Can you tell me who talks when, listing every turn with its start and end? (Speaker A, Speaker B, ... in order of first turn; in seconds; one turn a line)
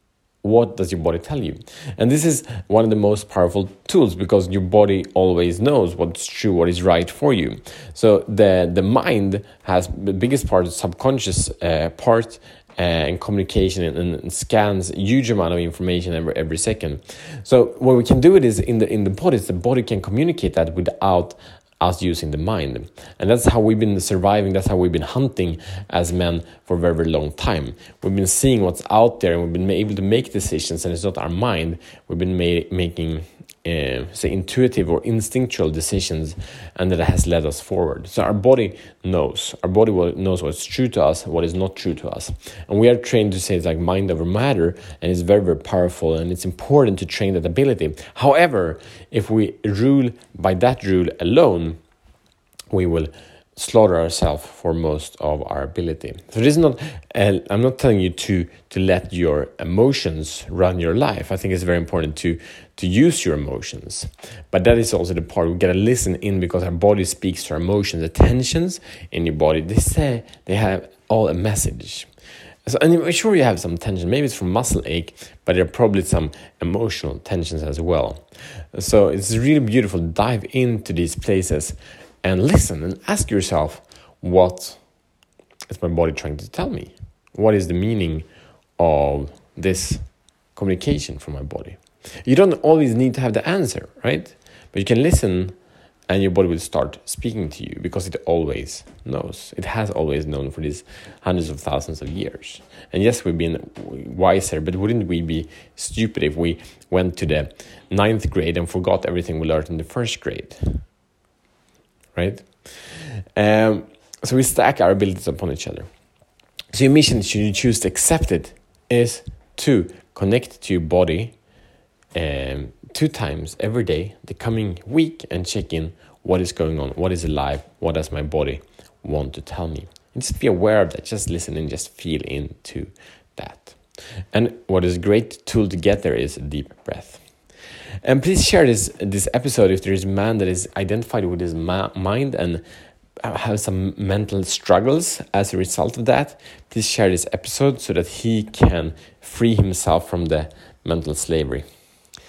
Speaker A: 0.4-51.8
Speaker A: 52.7-72.1
Speaker A: 72.7-84.8
Speaker A: 85.7-88.3
Speaker A: 88.8-90.0
Speaker A: 90.5-95.6
Speaker A: 96.1-110.8
Speaker A: 112.2-115.9
Speaker A: 116.7-121.3
Speaker A: 122.2-133.8
Speaker A: 134.3-137.2
Speaker A: 138.0-142.6
Speaker A: 143.2-151.6